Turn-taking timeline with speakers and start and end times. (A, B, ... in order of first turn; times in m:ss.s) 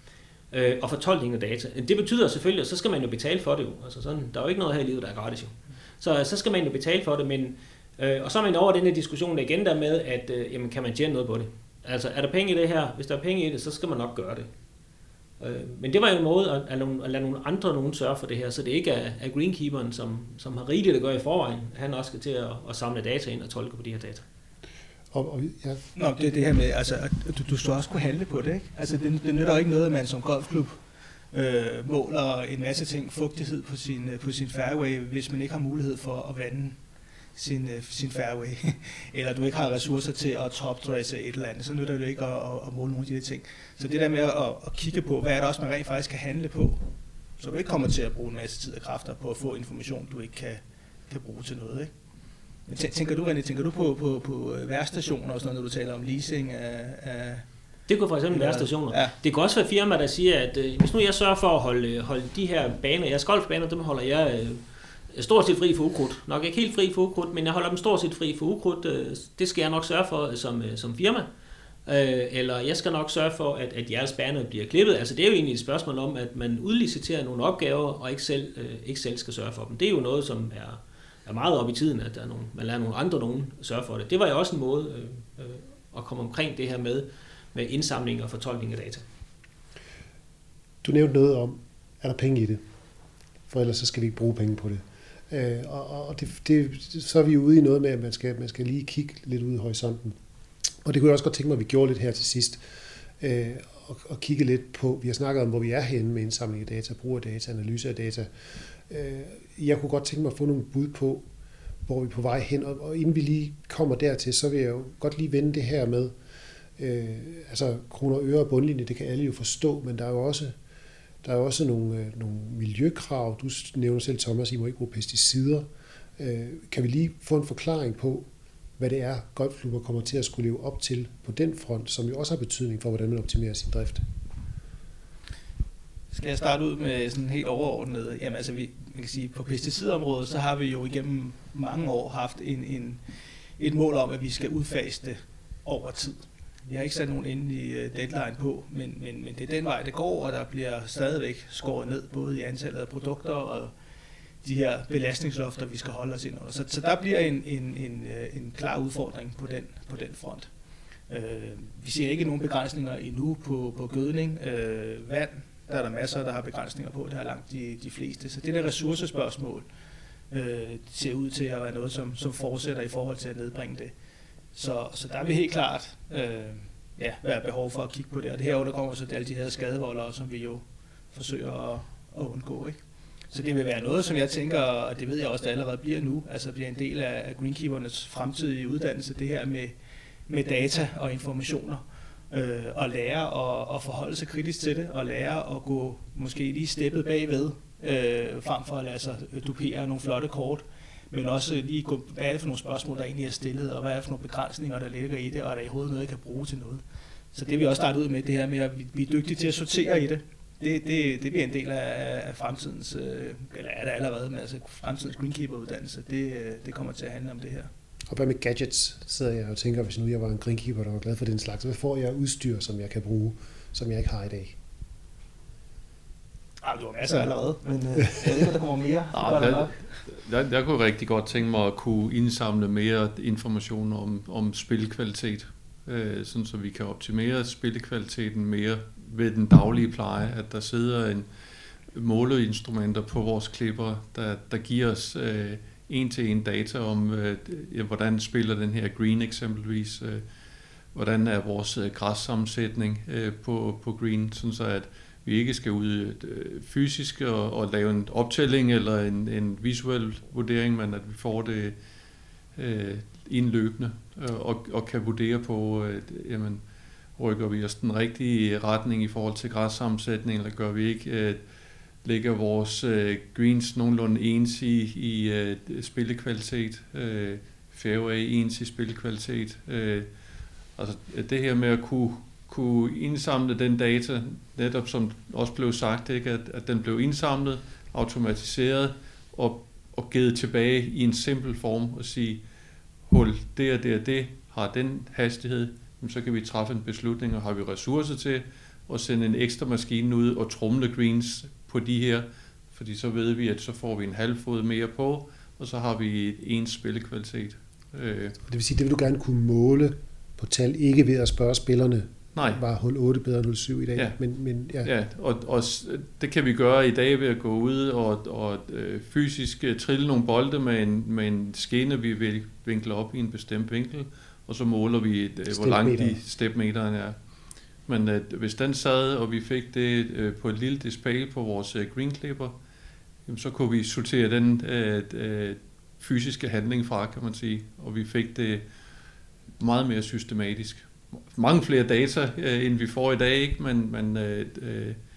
0:00.5-0:14.5 A
0:15.4-0:24.2 A
0:25.1-0:25.8 B
0:25.9-0:30.7 C
0:31.3-0:36.8 C
0:37.3-0:46.8 C
0:47.4-0:51.9 C
0:52.7-0:57.4 C
0:57.9-1:11.3 A
0:58.3-0:59.1 C
1:11.8-1:29.0 A
1:30.8-1:32.6 B
1:33.5-1:40.2 B
1:40.8-1:42.6 B
1:43.2-1:51.2 B
1:51.8-1:56.1 B
1:56.8-2:00.5 B
2:01.2-2:05.7 B
2:06.2-2:08.3 B
2:08.8-2:14.0 B
2:16.1-2:23.0 C
2:23.6-2:33.7 C
2:34.4-2:40.5 C
2:41.1-2:49.6 C
2:50.3-2:53.9 C
2:54.5-3:02.8 C
3:03.3-3:09.7 C
3:10.3-3:37.7 C
3:38.1-3:44.6 B
3:46.6-3:49.8 C
3:49.1-4:01.2 D
4:01.9-4:10.2 D
4:10.9-4:21.7 D
4:22.6-4:26.6 D
4:27.2-4:31.4 D
4:32.0-4:40.1 D
4:40.8-4:52.4 D
4:53.1-5:08.4 D
5:08.5-5:14.9 B
5:14.8-5:27.1 D
5:25.5-5:26.2 B
5:27.9-5:32.5 D
5:33.3-5:38.6 D
5:39.6-5:45.0 D